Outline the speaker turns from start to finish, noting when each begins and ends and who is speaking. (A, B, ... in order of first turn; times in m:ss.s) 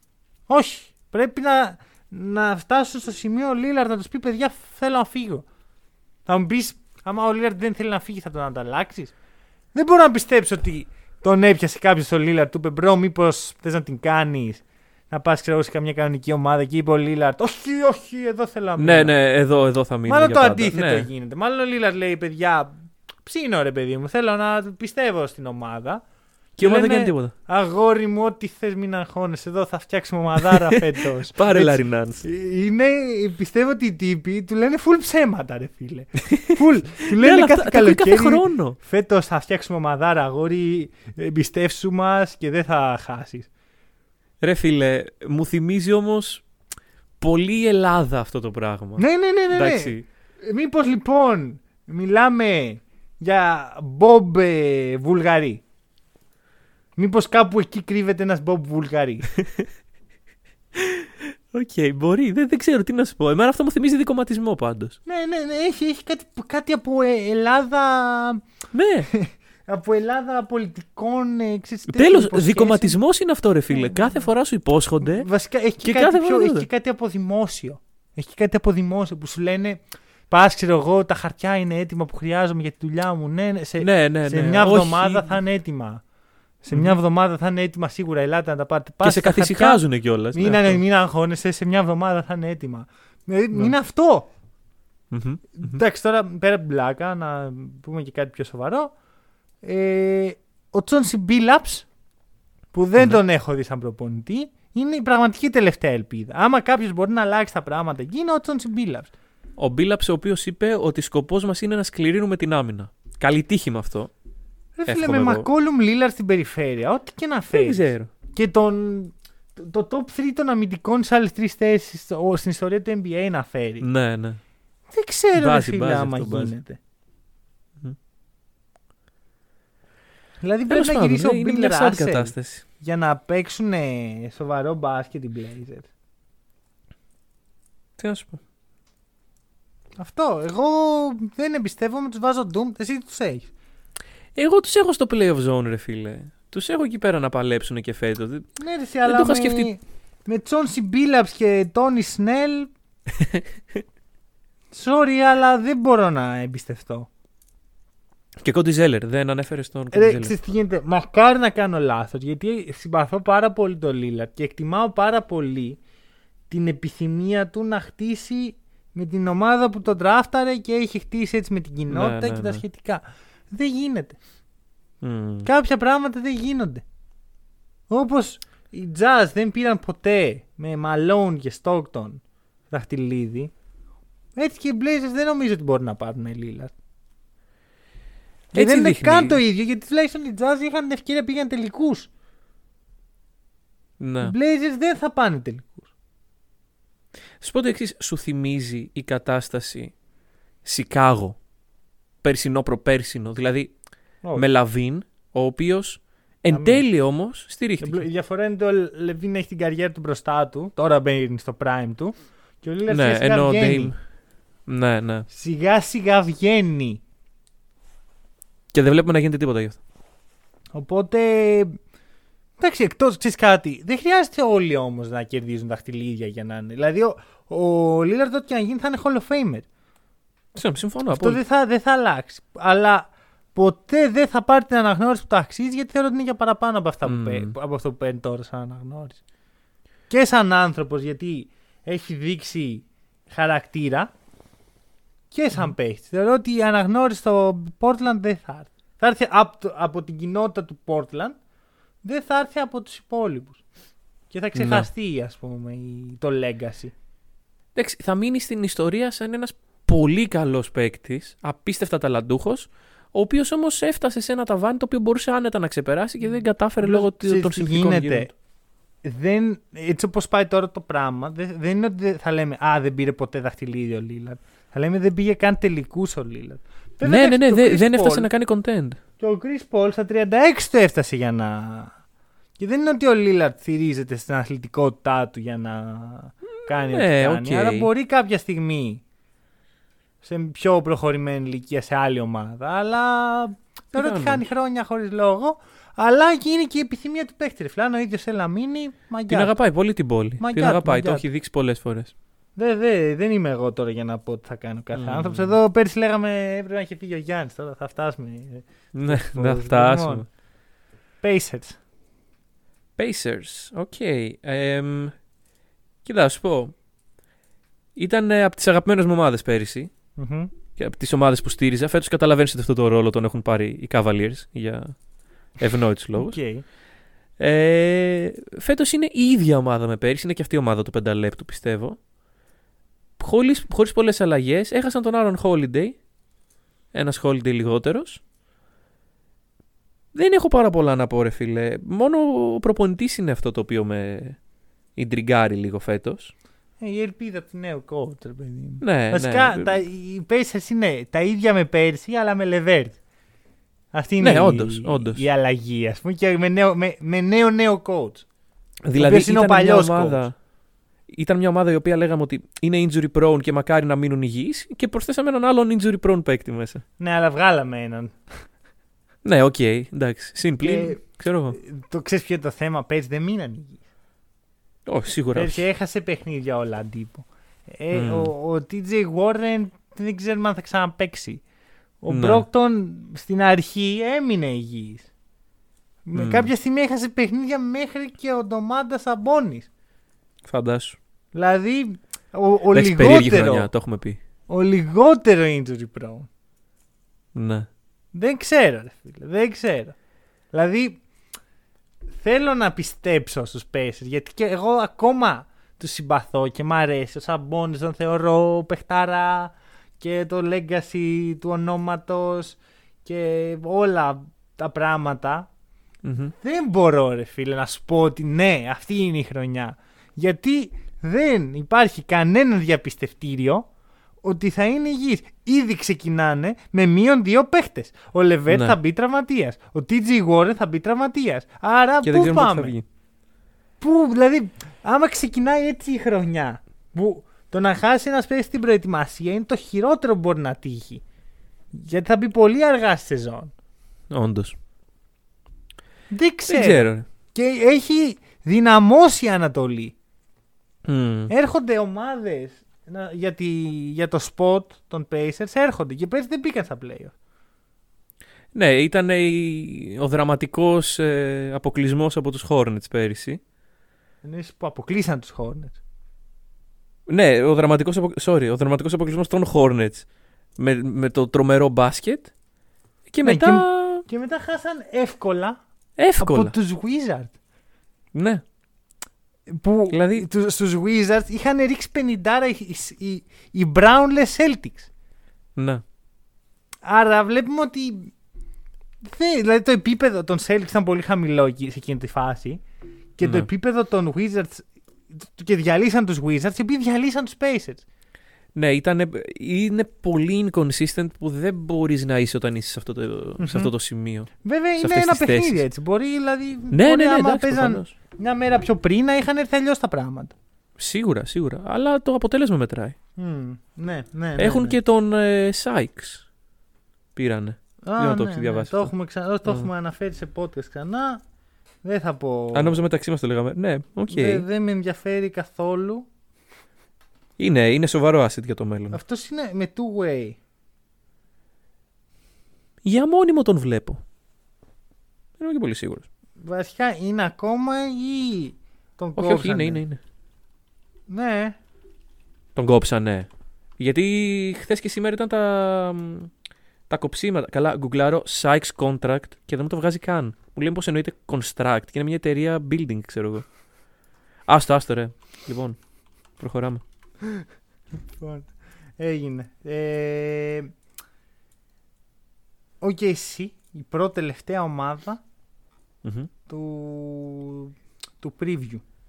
0:00.5-0:05.4 A
0:06.3-0:09.1 A
0:09.7-0:19.2 A
0:18.8-0:21.1 B
0:20.1-0:26.0 A
0:26.6-0:27.3 B
0:26.6-0:43.5 A
0:30.6-0:32.2 B
0:37.1-0:38.8 B
0:44.4-0:46.4 B
0:47.2-0:50.0 B
0:49.0-0:55.6 A
0:57.0-0:59.3 A
0:59.4-0:59.7 B
1:00.8-1:05.0 B
1:05.1-1:08.4 A
1:08.7-1:09.1 B
1:09.1-1:13.0 A
1:11.9-1:15.3 B
1:13.7-1:14.3 A
1:15.0-1:26.0 A
1:15.8-1:16.7 B
1:23.8-1:25.4 B
1:26.6-1:29.8 A
1:26.7-1:27.0 B
1:29.0-1:30.8 B
1:30.3-1:34.3 A
1:35.1-1:35.8 B
1:35.6-1:38.9 A
1:39.6-1:41.9 A
1:42.7-1:49.1 A
1:49.6-1:54.1 B
1:54.8-2:03.9 A
1:54.9-1:55.5 B
1:57.5-1:58.1 B
2:03.8-2:04.4 B
2:04.9-2:06.8 A
2:05.4-2:06.5 B
2:10.4-2:15.9 A
2:10.7-2:12.6 B
2:18.0-2:18.4 B
2:20.0-2:23.5 A
2:24.4-2:28.5 B
2:28.6-2:32.7 A
2:29.0-2:29.7 B
2:33.2-2:33.8 B
2:34.7-2:37.1 A
2:38.4-2:40.4 B
2:39.9-2:45.8 A
2:46.5-2:54.2 A
2:51.9-2:52.6 B
2:55.0-2:55.5 B
2:55.4-2:56.8 A
2:57.9-3:03.5 A
3:04.4-3:06.7 A
3:08.5-3:12.1 A
3:08.5-3:09.4 B
3:14.0-3:14.3 B
3:14.2-3:15.9 A
3:17.4-3:19.9 B
3:20.6-3:21.4 B
3:22.2-3:23.7 B
3:24.3-3:28.0 B
3:26.5-3:26.8 A
3:27.8-3:33.9 A
3:32.9-3:34.0 B
3:34.7-3:35.3 B
3:35.3-3:37.0 A
3:38.7-3:39.8 B
3:40.7-3:41.8 A
3:42.6-3:49.7 A
3:50.5-3:51.4 B
3:51.1-3:59.2 A
3:57.0-3:57.6 B
4:00.1-4:04.1 A
4:05.3-4:11.4 A
4:12.0-4:13.6 A
4:14.3-4:16.9 A
4:14.6-4:14.9 B
4:17.8-4:28.3 B
4:26.8-4:28.3 A
4:29.0-4:38.3 A
4:37.0-4:39.0 B
4:39.2-4:42.0 A
4:42.6-4:49.0 A
4:46.6-4:47.9 B
4:50.2-4:59.5 A
4:54.0-4:54.4 B
4:59.3-5:02.1 B
5:00.4-5:01.2 A
5:02.6-5:10.3 A
5:04.9-5:05.6 B
5:08.9-5:10.3 B
5:11.2-5:11.8 A
5:13.0-5:15.2 B
5:16.0-5:16.7 B
5:18.0-5:19.9 B
5:20.2-5:20.5 A
5:20.8-5:25.0 B
5:25.6-5:26.4 B
5:26.1-5:26.6 A
5:27.4-5:32.0 B
5:33.2-5:36.0 B
5:36.9-5:38.2 B
5:40.1-5:44.4 B
5:45.0-5:46.3 B
5:46.8-5:53.0 A
5:48.8-5:49.8 B
5:53.9-5:58.2 A
5:54.2-5:55.2 B
5:58.8-6:00.4 B
5:58.9-6:00.2 A
6:01.1-6:06.8 B
6:07.0-6:08.2 A
6:09.2-6:11.6 B
6:10.6-6:13.8 A
6:14.9-6:15.6 B
6:15.3-6:21.4 A
6:17.9-6:18.3 B
6:22.0-6:25.1 A
6:22.1-6:22.4 B
6:26.1-6:29.7 A
6:26.1-6:26.5 B
6:30.4-6:31.0 B
6:31.3-6:33.7 A
6:32.7-6:34.2 B
6:34.5-6:36.3 A
6:37.4-6:37.7 B
6:38.1-6:40.0 A
6:40.5-6:41.0 A
6:42.2-6:55.5 A
6:56.0-6:56.3 B
6:56.4-7:03.7 A
7:04.2-7:12.8 A
7:08.5-7:08.8 B
7:12.0-7:12.8 B
7:13.8-7:21.0 A
7:21.7-7:23.5 A
7:24.1-7:24.6 B
7:26.1-7:30.0 A
7:26.5-7:27.1 B
7:30.8-7:31.3 B
7:31.3-7:37.2 A
7:38.5-7:43.4 B
7:44.2-7:45.8 A
7:47.1-7:52.3 B
7:53.1-7:54.0 B
7:53.2-7:55.6 A
7:56.0-7:56.5 B
7:56.2-7:57.3 A
7:58.1-7:58.4 B
7:59.5-8:04.9 A
7:59.9-8:00.3 B
8:05.6-8:05.8 B
8:06.8-8:08.1 A
8:09.0-8:12.6 A
8:13.2-8:17.8 A
8:13.2-8:13.5 B
8:18.6-8:25.6 B
8:23.4-8:23.7 A
8:24.4-8:30.4 A
8:26.7-8:27.9 B
8:30.8-8:33.0 B
8:33.2-8:34.8 A
8:34.4-8:36.2 B
8:37.2-8:38.9 B
8:37.8-8:41.2 A
8:41.8-8:42.8 A
8:42.5-8:44.4 B
8:44.1-8:46.1 A
8:47.4-8:49.0 B
8:48.9-8:50.4 A
8:52.8-8:54.0 B
8:55.4-8:56.1 B
8:56.4-8:59.8 A
8:59.2-9:00.0 B
9:01.1-9:01.6 A
9:02.6-9:06.3 B
9:06.9-9:13.5 B
9:14.5-9:15.8 B
9:16.4-9:16.8 B
9:18.2-9:20.7 A
9:22.8-9:25.2 A
9:26.0-9:26.3 B
9:26.5-9:28.8 A